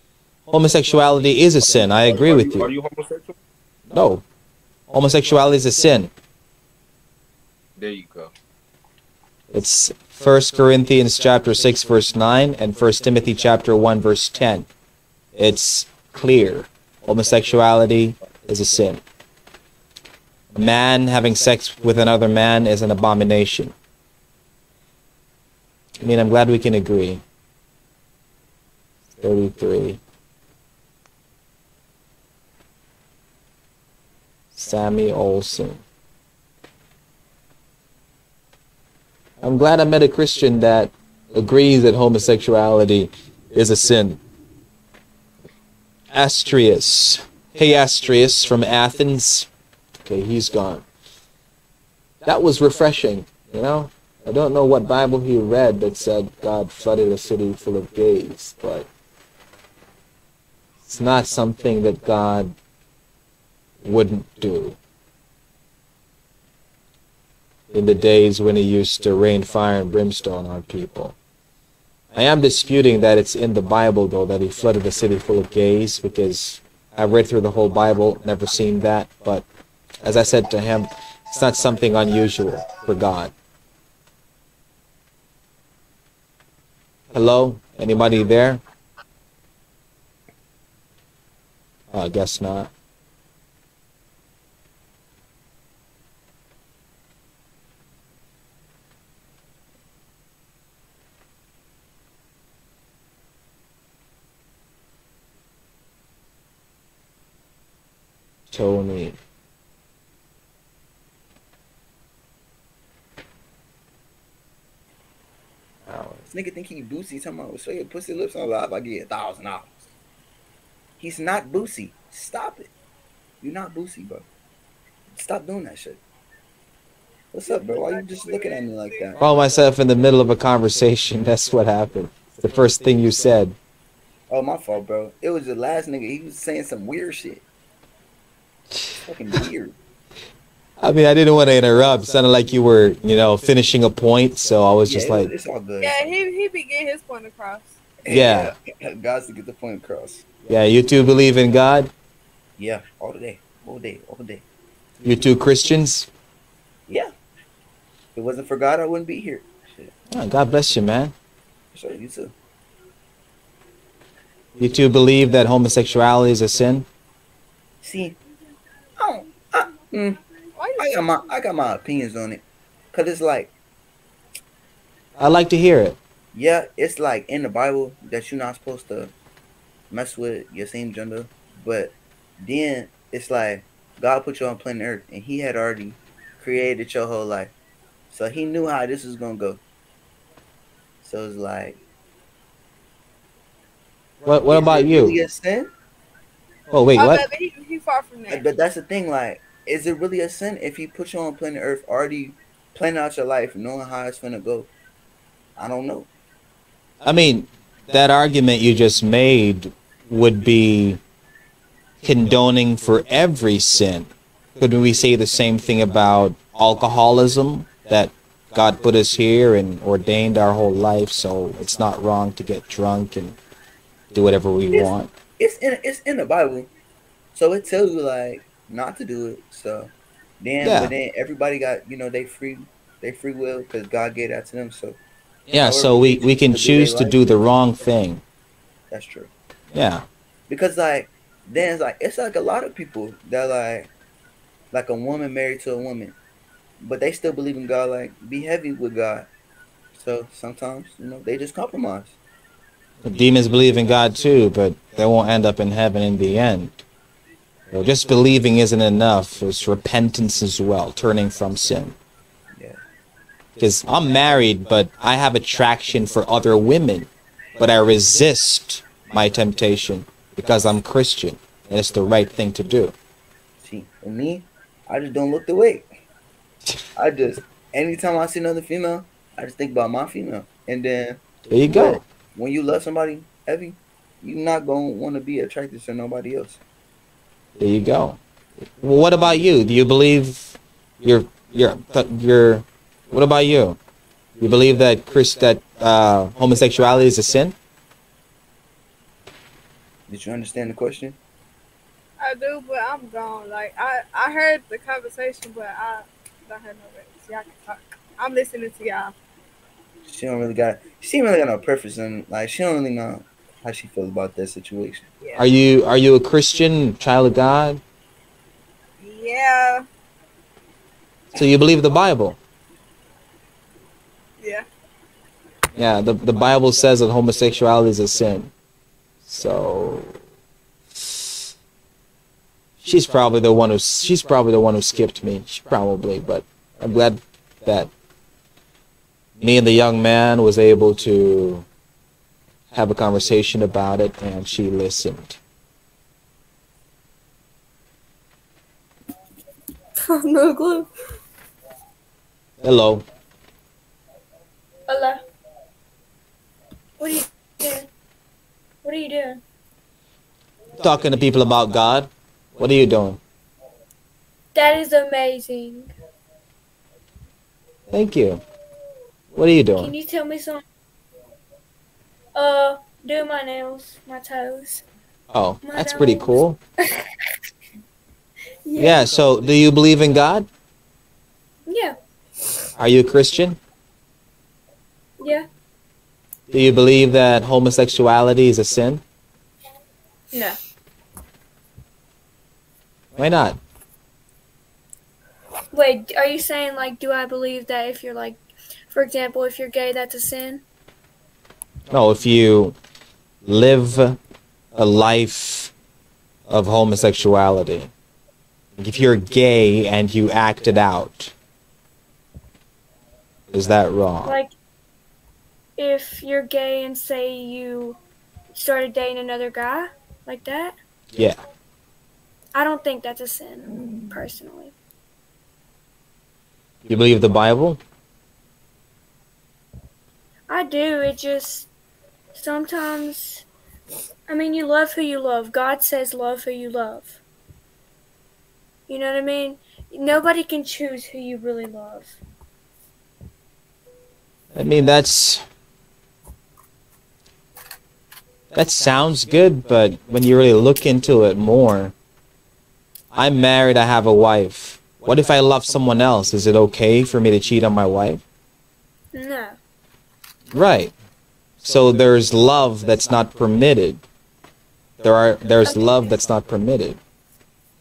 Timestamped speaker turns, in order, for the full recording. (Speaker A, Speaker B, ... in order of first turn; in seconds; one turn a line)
Speaker A: 0.5-2.7
Speaker B: 2.0-3.4
Speaker A: 3.9-4.2
Speaker A: 4.9-6.1
Speaker B: 7.8-8.3
Speaker A: 9.5-14.7
Speaker A: 15.3-19.0
Speaker A: 20.5-23.7
Speaker A: 26.0-27.2
Speaker A: 29.2-30.0
Speaker A: 34.5-35.8
Speaker A: 39.4-44.2
Speaker A: 46.1-49.5
Speaker A: 50.1-50.8
Speaker A: 52.2-58.9
Speaker A: 60.9-62.5
Speaker A: 63.8-64.8
Speaker A: 67.7-71.1
Speaker A: 72.1-79.5
Speaker A: 80.0-83.3
Speaker A: 87.1-88.6
Speaker A: 91.9-92.7
Speaker A: 108.5-109.2
Speaker A: 115.9-116.2
Speaker C: 116.3-119.8
Speaker C: 121.0-122.7
Speaker C: 123.4-124.3
Speaker C: 125.1-126.0
Speaker C: 127.3-129.2
Speaker A: 129.2-133.6
Speaker C: 134.3-137.4
Speaker C: 139.1-139.8
Speaker A: 140.8-145.3
Speaker C: 144.8-146.2
Speaker D: 145.9-147.8
Speaker C: 148.1-150.2
Speaker A: 148.1-148.5
Speaker A: 150.5-151.9
Speaker C: 152.6-154.4
Speaker A: 155.0-156.1
Speaker C: 158.2-159.9
Speaker A: 160.1-161.1
Speaker C: 161.7-162.3
Speaker A: 164.6-166.9
Speaker C: 167.8-168.2
Speaker C: 169.0-170.2
Speaker C: 170.8-173.5
Speaker A: 175.2-176.0
Speaker C: 176.3-179.1
Speaker C: 179.9-187.5
Speaker C: 188.1-189.6
Speaker C: 191.0-191.8
Speaker A: 194.2-195.1
Speaker C: 194.2-195.7
Speaker A: 196.7-197.2
Speaker D: 197.0-198.4
Speaker C: 198.3-204.7
Speaker C: 205.6-206.1
Speaker A: 207.0-211.0
Speaker A: 212.0-223.4
Speaker A: 224.1-225.1
Speaker C: 224.7-226.7
Speaker C: 227.3-235.0
Speaker A: 230.6-230.9
Speaker A: 235.5-238.2
Speaker C: 235.5-237.2
Speaker C: 238.9-239.3
Speaker A: 239.7-240.1
Speaker C: 240.5-243.9
Speaker C: 244.7-246.2
Speaker C: 246.8-249.3
Speaker C: 249.9-252.2
Speaker A: 253.0-256.8
Speaker A: 257.7-261.9
Speaker A: 263.6-272.9
Speaker C: 273.6-275.8
Speaker C: 276.9-286.6
Speaker A: 281.5-282.0
Speaker A: 287.6-293.8
Speaker A: 294.4-297.6
Speaker C: 300.1-301.2
Speaker D: 302.2-309.1
Speaker C: 310.1-315.1
Speaker A: 315.4-317.8
Speaker D: 319.0-319.8
Speaker A: 321.3-322.4
Speaker D: 324.4-324.6
Speaker A: 325.8-328.5
Speaker A: 329.2-330.2
Speaker A: 332.8-337.9
Speaker A: 339.4-341.6
Speaker A: 342.7-345.4
Speaker D: 350.1-350.9
Speaker A: 352.6-353.1
Speaker E: 354.9-355.2
Speaker E: 357.0-357.9
Speaker E: 358.8-359.4
Speaker A: 360.8-363.2
Speaker E: 364.5-365.9
Speaker A: 367.9-368.4
Speaker A: 369.3-369.9
Speaker E: 369.8-370.6
Speaker E: 372.3-374.8
Speaker A: 375.3-376.6
Speaker E: 375.6-376.4
Speaker E: 378.6-379.1
Speaker A: 378.8-380.5
Speaker E: 381.7-381.9
Speaker A: 382.8-383.6
Speaker E: 385.2-385.5
Speaker A: 386.5-389.0
Speaker E: 390.3-390.6
Speaker A: 393.2-393.6
Speaker E: 395.7-398.4
Speaker E: 398.9-400.6
Speaker A: 401.9-402.8
Speaker A: 403.4-404.2
Speaker A: 404.7-405.7
Speaker A: 406.5-407.9
Speaker A: 408.8-411.3
Speaker A: 413.5-414.4
Speaker E: 414.2-414.5
Speaker E: 415.8-418.0
Speaker E: 418.5-420.8
Speaker A: 421.1-421.4
Speaker E: 422.5-424.7
Speaker A: 426.9-427.8
Speaker E: 430.5-431.7
Speaker E: 432.3-433.4
Speaker E: 434.3-437.2
Speaker E: 438.9-442.2
Speaker A: 444.5-445.4
Speaker A: 448.5-451.9
Speaker A: 453.1-458.2
Speaker E: 459.1-459.6
Speaker A: 460.5-460.9
Speaker A: 461.6-464.0
Speaker A: 465.0-467.0
Speaker E: 465.6-466.1